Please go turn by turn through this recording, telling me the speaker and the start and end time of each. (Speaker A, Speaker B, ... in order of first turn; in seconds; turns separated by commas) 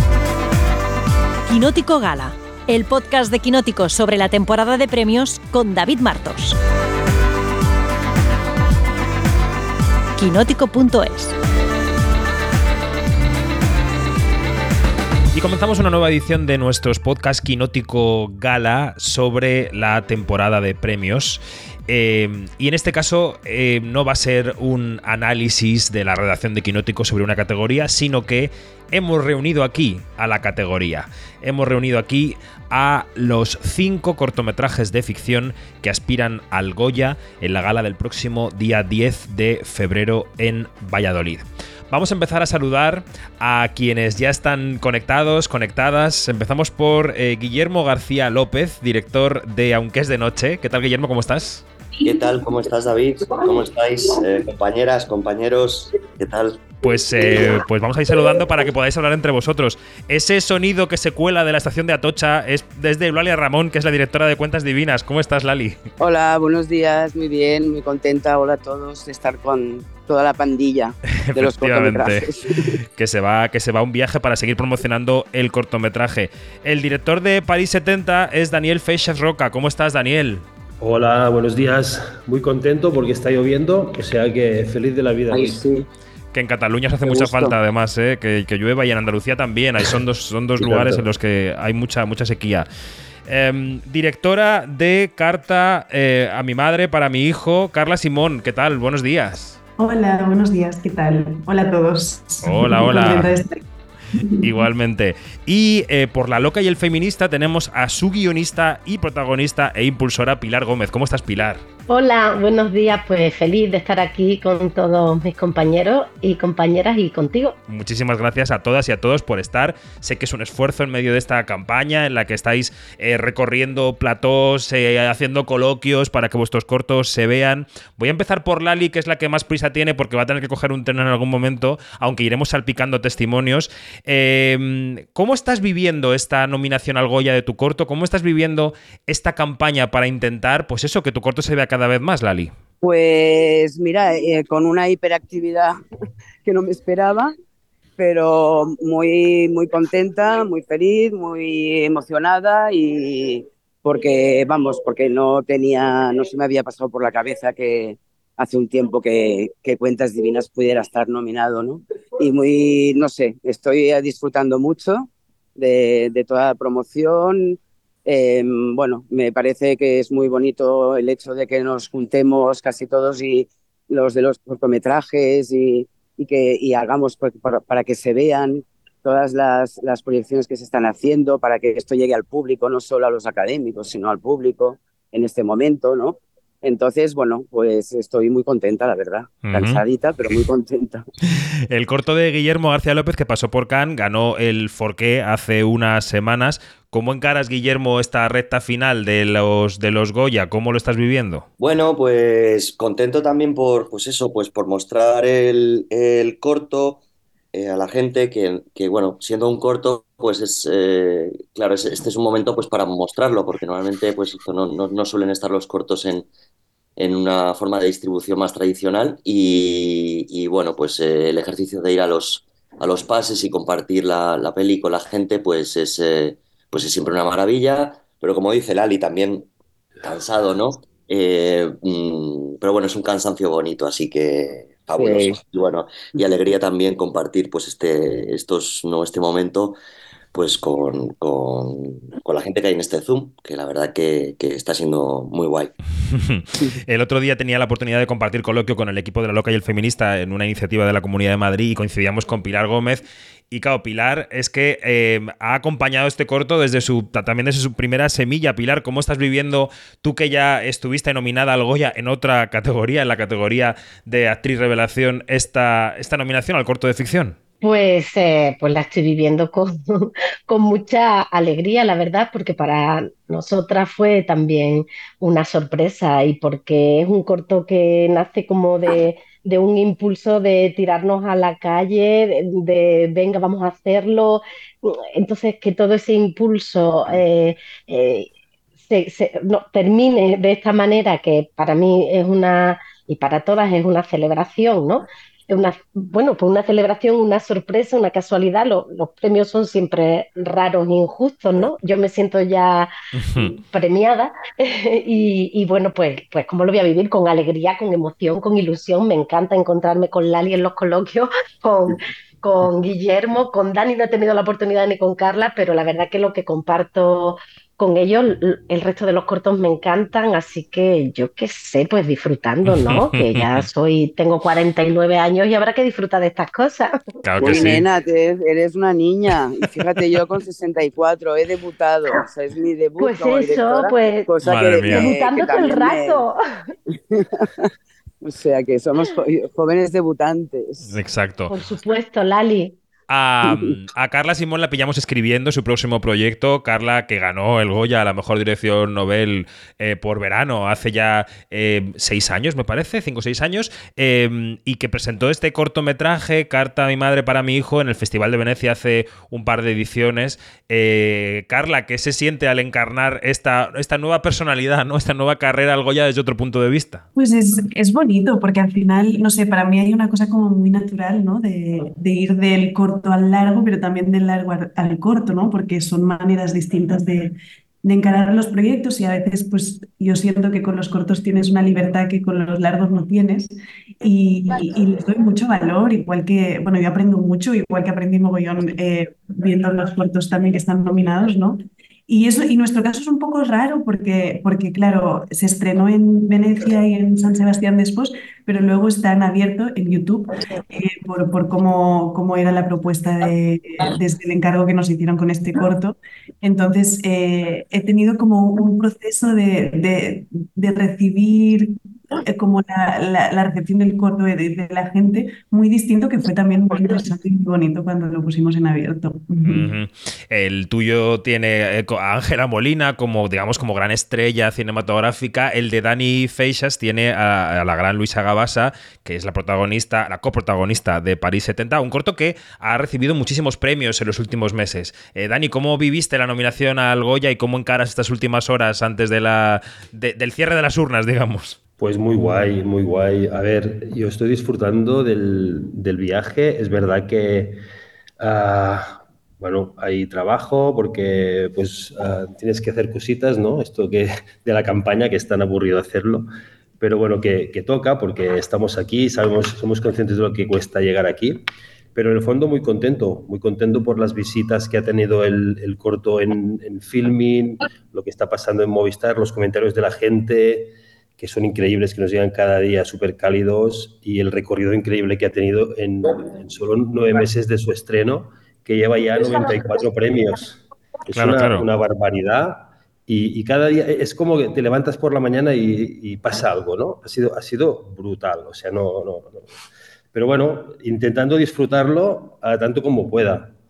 Speaker A: 1.4-6.6, Speaker A: 10.2-11.3, Speaker B: 15.3-51.6, Speaker C: 52.0-56.6, Speaker B: 56.8-65.8, Speaker D: 66.0-72.8, Speaker B: 71.2-72.3, Speaker B: 73.0-80.5, Speaker E: 80.8-85.7, Speaker D: 85.3-85.6, Speaker B: 86.3-92.7, Speaker D: 87.1-87.5, Speaker E: 90.6-91.0, Speaker B: 93.3-99.6, Speaker F: 99.8-103.6, Speaker B: 102.4-103.3, Speaker F: 104.1-104.5, Speaker B: 104.4-111.6, Speaker G: 111.9-117.6, Speaker B: 117.7-142.5, Speaker D: 142.8-145.8, Speaker D: 146.4-147.3, Speaker D: 148.0-191.1, Speaker B: 189.5-189.8, Speaker B: 191.3-201.5, Speaker C: 201.6-207.0, Speaker C: 207.5-216.3, Speaker C: 217.0-229.5, Speaker C: 230.0-239.8, Speaker D: 235.0-235.4, Speaker C: 240.3-245.7, Speaker B: 246.1-267.4, Speaker G: 267.6-288.3, Speaker G: 288.8-327.7, Speaker B: 303.2-303.6, Speaker B: 322.6-323.7, Speaker B: 327.2-327.8, Speaker D: 327.4-336.2, Speaker G: 333.0-334.3, Speaker B: 334.4-335.1, Speaker G: 334.8-336.4, Speaker D: 337.1-337.7, Speaker D: 338.2-341.0, Speaker B: 340.9-341.5, Speaker G: 341.5-342.8, Speaker B: 343.1-367.0, Speaker D: 343.4-343.8, Speaker F: 367.1-419.7, Speaker B: 419.4-441.6, Speaker E: 441.8-447.6, Speaker E: 448.2-456.3, Speaker E: 456.8-489.4, Speaker B: 481.1-481.7, Speaker E: 490.1-493.5